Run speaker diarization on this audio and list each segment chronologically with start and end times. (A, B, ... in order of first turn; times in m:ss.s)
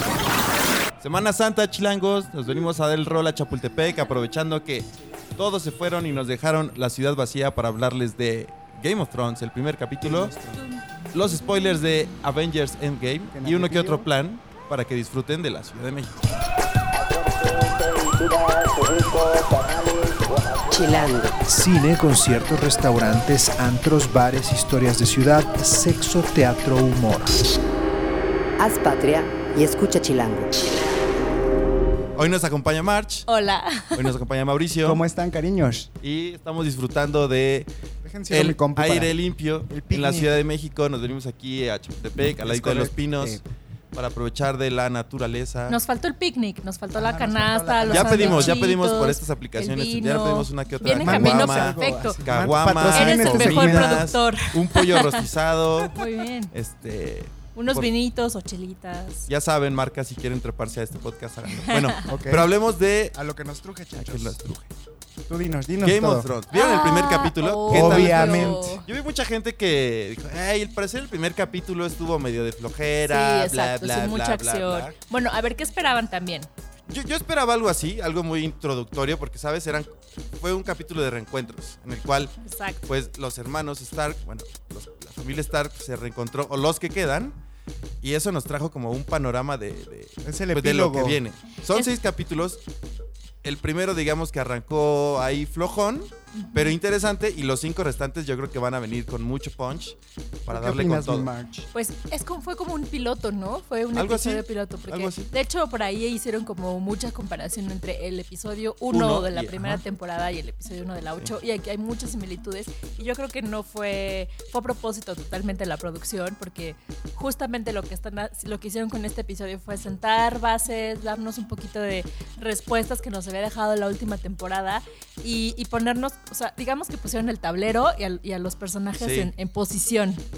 0:01.0-0:10.3 A
0:10.0-0:10.6 B
0:11.1-0:16.3 A
0:13.3-0:14.1 B
0:17.5-0:20.0 C
0:20.6-0:21.4 C
0:21.4-0:27.4 D
0:28.6-0:30.7 C
0:32.2-0:33.3 A
0:33.3-0:34.1 E
0:33.9-0:35.0 A
0:34.8-0:35.9 B
0:36.0-0:37.7 A
0:38.0-0:40.4 B
0:38.3-0:43.4 A
0:42.4-0:43.4 B
0:43.9-0:45.8 A
0:45.7-0:52.3 E
0:46.9-0:48.6 B
0:47.9-0:57.9 A
0:51.0-0:54.1 B
0:52.9-0:55.3 E
0:55.8-0:56.5 E
0:57.6-0:59.3 E
0:59.3-1:03.2 A
1:02.0-1:02.6 B
1:03.1-1:04.4 B
1:03.9-1:04.7 A
1:05.3-1:06.3 B
1:05.8-1:15.0 A
1:06.5-1:08.9 E
1:07.7-1:08.8 B
1:13.0-1:16.5 E
1:16.9-1:22.3 A
1:22.4-1:22.9 E
1:22.9-1:27.4 A
1:28.0-1:32.6 A
1:30.2-1:31.2 B
1:33.4-1:41.3 A
1:36.4-1:36.7 E
1:40.5-1:41.7 B
1:41.7-2:10.2 E
1:43.9-1:45.3 A
1:48.9-1:49.8 A
2:09.0-2:09.3 A